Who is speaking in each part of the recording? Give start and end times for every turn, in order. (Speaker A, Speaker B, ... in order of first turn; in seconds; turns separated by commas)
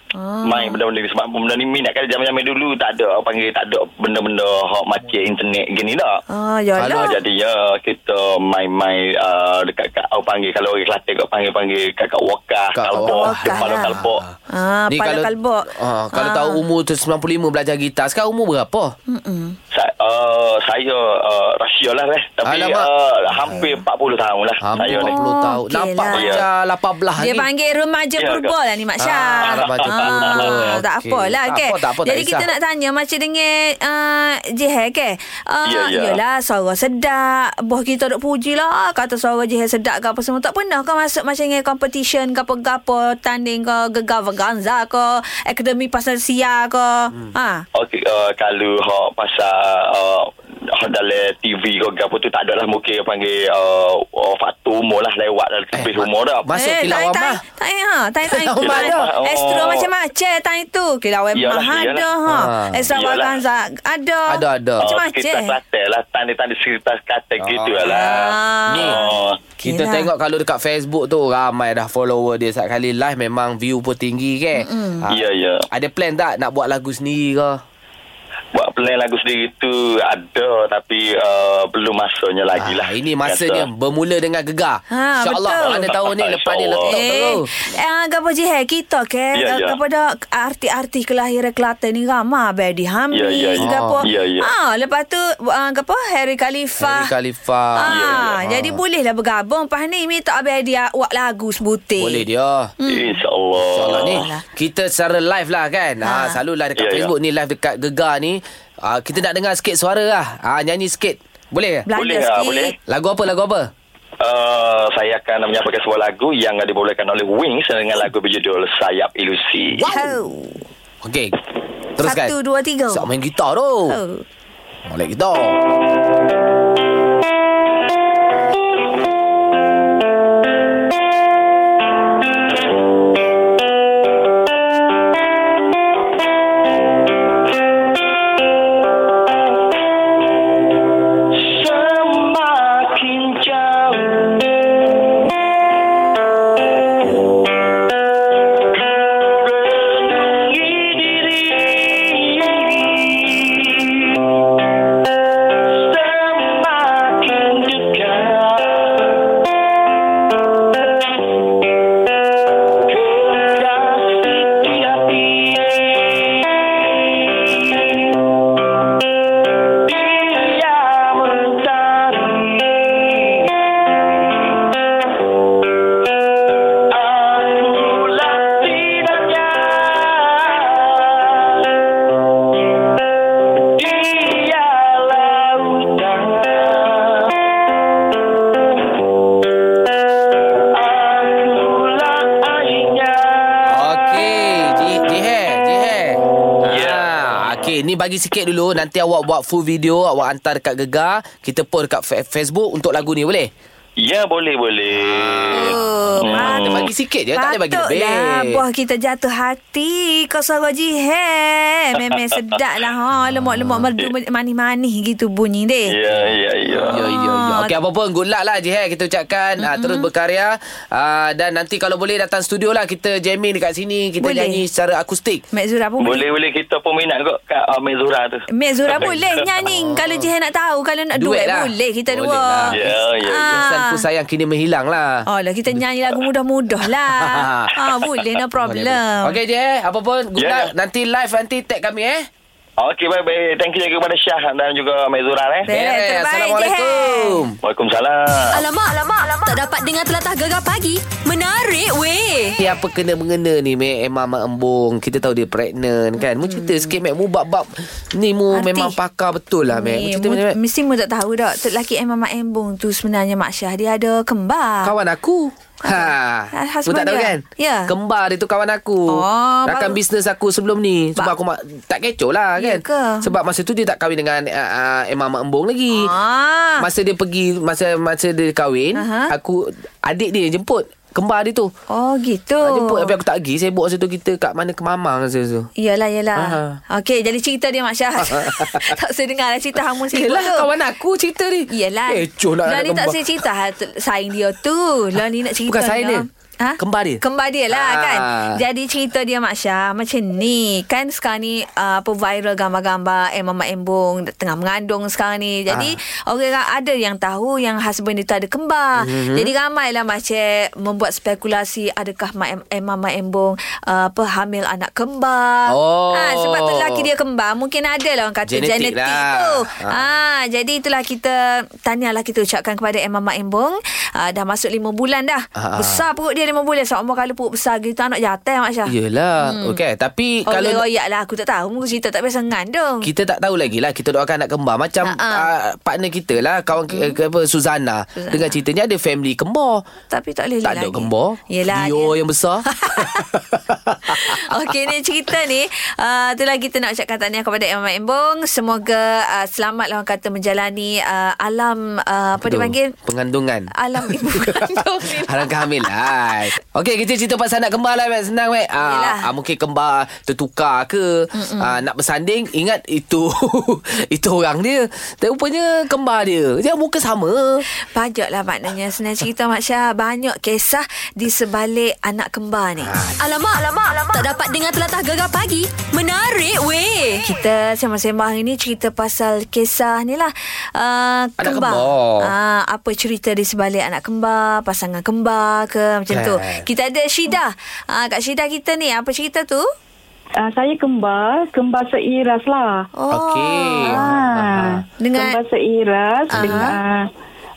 Speaker A: 0.1-0.8, Speaker B: 0.4-6.2, Speaker A: 6.3-7.1, Speaker C: 6.8-7.1, Speaker B: 6.9-14.2, Speaker C: 12.7-14.4, Speaker A: 13.0-14.0, Speaker A: 14.5-16.6, Speaker C: 14.9-18.9, Speaker A: 19.1-19.6, Speaker B: 19.7-25.1, Speaker C: 22.4-23.7, Speaker C: 24.6-27.4, Speaker A: 24.8-26.4, Speaker B: 26.1-26.4, Speaker A: 27.2-47.6, Speaker B: 28.2-28.5, Speaker C: 29.0-32.5, Speaker B: 29.4-30.5, Speaker B: 35.6-36.2, Speaker B: 47.7-56.5, Speaker C: 55.7-57.4, Speaker A: 56.6-65.5, Speaker C: 58.3-59.1, Speaker B: 58.6-59.8, Speaker B: 61.4-62.0, Speaker C: 62.2-62.9, Speaker B: 62.9-63.4, Speaker C: 64.3-64.9, Speaker B: 64.8-69.4, Speaker C: 67.4-69.0, Speaker A: 67.8-70.1, Speaker C: 69.6-77.6, Speaker A: 74.5-75.1, Speaker B: 75.1-75.6, Speaker B: 78.5-83.6, Speaker C: 82.6-87.5, Speaker A: 84.9-85.8, Speaker B: 85.7-87.3, Speaker A: 86.8-97.1, Speaker B: 89.3-89.8, Speaker B: 93.1-94.5, Speaker C: 93.6-94.0, Speaker C: 96.8-98.8, Speaker A: 97.8-102.2, Speaker B: 97.9-98.3, Speaker C: 102.0-102.7, Speaker A: 102.8-103.2, Speaker B: 102.9-104.2, Speaker C: 103.6-111.8, Speaker A: 103.8-104.4, Speaker A: 106.0-106.4, Speaker B: 106.8-107.1, Speaker A: 111.9-112.7, Speaker B: 112.0-112.7, Speaker C: 112.9-113.7, Speaker B: 114.2-119.8, Speaker C: 119.7-120.2, Speaker A: 119.9-120.6, Speaker C: 121.0-121.3, Speaker C: 122.0-122.3, Speaker A: 122.0-123.1, Speaker C: 122.9-124.0, Speaker A: 123.9-124.2, Speaker C: 124.8-125.6, Speaker B: 141.7-143.7, Speaker B: 157.8-158.3, Speaker B: 177.9-179.0, Speaker C: 193.6-203.5, Speaker B: 196.6-197.0, Speaker B: 204.0-206.9, Speaker C: 204.9-208.6, Speaker A: 205.5-206.8, Speaker A: 207.3-215.9, Speaker C: 213.2-213.8, Speaker B: 215.9-217.0, Speaker C: 216.1-225.4, Speaker A: 216.9-217.7, Speaker A: 219.6-220.1, Speaker A: 224.2-224.6, Speaker A: 225.5-226.3, Speaker B: 226.0-229.4, Speaker A: 228.5-234.0, Speaker C: 229.0-230.3, Speaker C: 231.2-233.0, Speaker B: 232.7-233.6, Speaker C: 233.5-235.8, Speaker A: 235.3-239.3, Speaker C: 237.1-237.7, Speaker C: 238.6-242.3, Speaker B: 240.3-240.7, Speaker B: 242.8-245.7, Speaker C: 245.7-247.6, Speaker A: 245.7-247.4, Speaker B: 247.6-248.6, Speaker D: 248.5-252.6, Speaker C: 252.6-260.6, Speaker A: 256.4-256.9, Speaker A: 258.5-258.9, Speaker A: 259.7-264.9, Speaker C: 264.8-276.1, Speaker A: 265.8-267.9, Speaker A: 269.1-270.0, Speaker A: 272.6-273.3, Speaker A: 275.9-276.9, Speaker C: 276.8-281.7, Speaker A: 278.9-279.3, Speaker A: 281.9-283.1, Speaker C: 282.6-285.7, Speaker A: 285.8-290.7, Speaker C: 286.4-286.8, Speaker C: 288.2-288.9, Speaker C: 290.0-293.5, Speaker A: 291.7-329.8, Speaker C: 295.6-296.2, Speaker C: 296.8-298.6, Speaker C: 309.0-309.5, Speaker C: 315.7-317.1, Speaker C: 318.5-320.0, Speaker C: 325.5-326.0, Speaker C: 328.9-330.8, Speaker A: 330.5-333.1, Speaker C: 333.0-339.9, Speaker A: 335.0-335.5, Speaker A: 336.9-337.2, Speaker A: 338.2-338.6, Speaker A: 340.1-343.2, Speaker C: 340.6-344.7, Speaker A: 344.1-352.9, Speaker C: 352.4-367.6, Speaker A: 353.7-356.4, Speaker A: 358.8-359.3, Speaker A: 361.3-361.8, Speaker A: 367.8-372.9, Speaker C: 372.8-373.2, Speaker D: 373.2-377.2, Speaker A: 377.2-389.6, Speaker C: 381.4-382.3, Speaker C: 386.1-386.6, Speaker E: 390.4-392.8, Speaker A: 392.9-394.1, Speaker C: 393.1-394.8, Speaker E: 393.8-397.1, Speaker A: 395.0-395.4, Speaker C: 396.3-396.7, Speaker A: 396.3-396.8